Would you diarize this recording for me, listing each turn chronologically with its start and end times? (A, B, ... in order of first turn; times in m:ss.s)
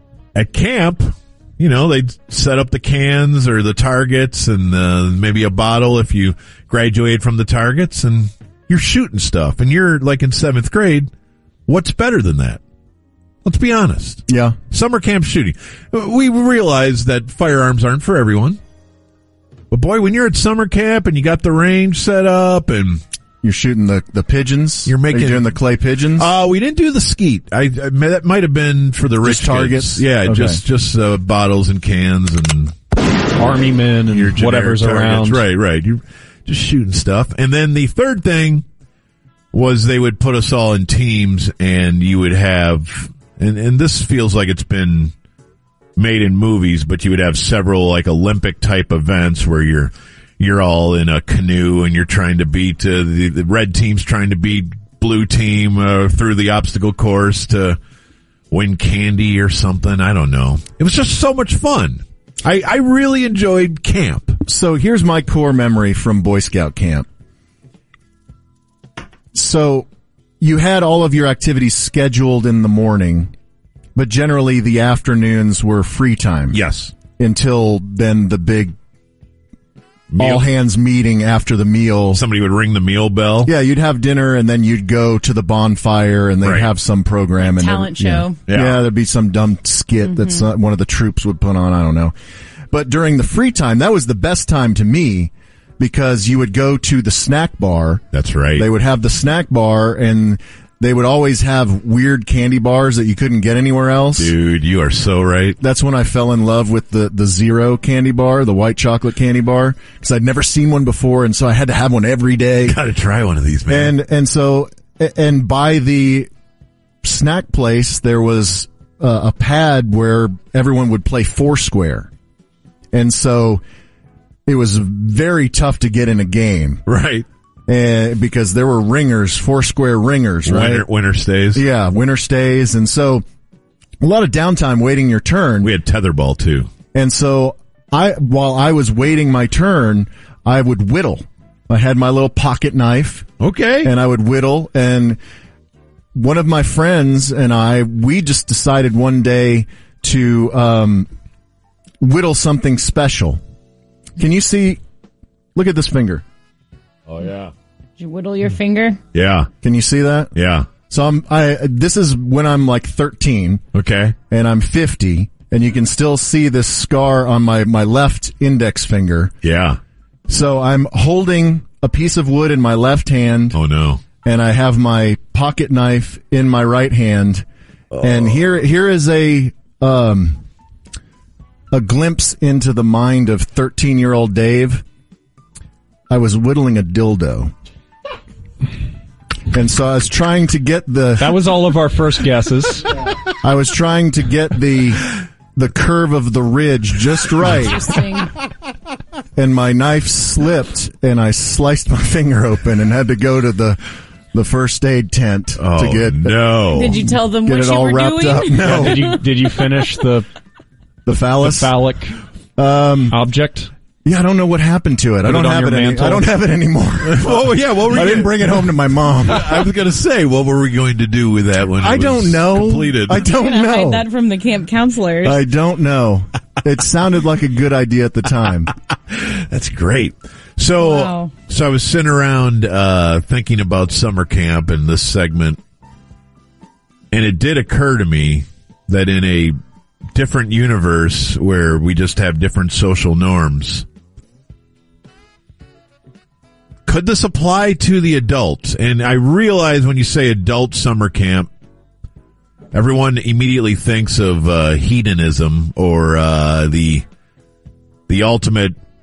0:00.3-0:11.1 A
0:11.7-0:12.6 A
0:13.4-0:18.6 A
0:14.3-0:14.6 B
0:19.7-0:23.0 A
0:23.4-0:26.3 B
0:24.9-0:25.5 A
0:26.2-0:32.7 A
0:29.2-0:30.6 B
0:33.4-0:35.4 C
0:34.1-0:38.6 A
0:39.5-0:45.1 A
0:46.0-0:57.8 A
0:58.5-1:04.4 A
1:04.5-1:07.1 B
1:09.3-1:09.9 B
1:10.4-1:13.3 B
1:13.9-1:16.6 B
1:16.5-1:16.9 A
1:17.2-1:18.7 B
1:20.1-1:20.5 A
1:20.2-1:22.2 B
1:22.1-1:23.5 A
1:23.4-1:32.1 B
1:26.4-1:26.7 A
1:27.4-1:28.4 D
1:28.5-1:28.8 A
1:30.0-1:30.4 D
1:32.7-1:38.0 B
1:38.1-1:38.6 A
1:38.6-1:44.3 B
1:44.2-1:45.6 A
1:45.6-1:52.8 B
1:52.6-1:53.9 A
1:53.7-1:56.3 B
1:57.0-2:02.1 B
2:02.9-2:03.6 B
2:04.4-2:06.8 B
2:06.9-2:07.2 A
2:07.7-2:10.8 B
2:10.4-2:11.6 A
2:11.5-2:13.2 B
2:14.0-2:15.7 B
2:15.6-2:16.7 A
2:16.9-2:23.3 B
2:23.4-2:23.9 A
2:23.8-2:25.2 B
2:26.1-2:31.1 B
2:32.0-2:33.4 B
2:34.2-2:34.8 B
2:35.6-2:36.2 B
2:37.1-2:37.5 A
2:38.0-2:39.0 D
2:39.1-2:39.5 A
2:39.6-2:40.3 B
2:40.3-2:40.7 A
2:40.9-2:43.6 B
2:43.7-2:44.1 A
2:44.3-2:49.3 B
2:49.4-2:49.8 A
2:50.3-2:53.6 B
2:53.5-2:54.0 A
2:54.2-2:57.4 B
2:57.9-2:58.3 A
2:58.0-3:00.4 B
3:01.7-3:04.8 B
3:06.1-3:07.5 B
3:09.5-3:11.3 B
3:11.2-3:12.9 C
3:13.4-3:17.9 B
3:17.6-3:18.3 D
3:19.4-3:23.8 B
3:24.3-3:29.1 B
3:25.6-3:27.0 A
3:26.7-3:29.9 D
3:28.6-3:30.2 C
3:31.1-3:31.7 B
3:31.3-3:32.2 C
3:32.6-3:33.2 B
3:33.1-3:33.7 C
3:34.0-3:39.7 B
3:35.2-3:36.2 C
3:37.0-3:43.3 A
3:41.7-3:44.0 B
3:43.2-3:45.4 D
3:45.2-3:48.7 B
3:49.1-3:55.6 A
3:50.8-3:51.3 D
3:57.1-3:59.6 A
4:00.1-4:03.8 A
4:06.8-4:11.5 A
4:12.7-4:17.1 A
4:18.1-4:18.8 A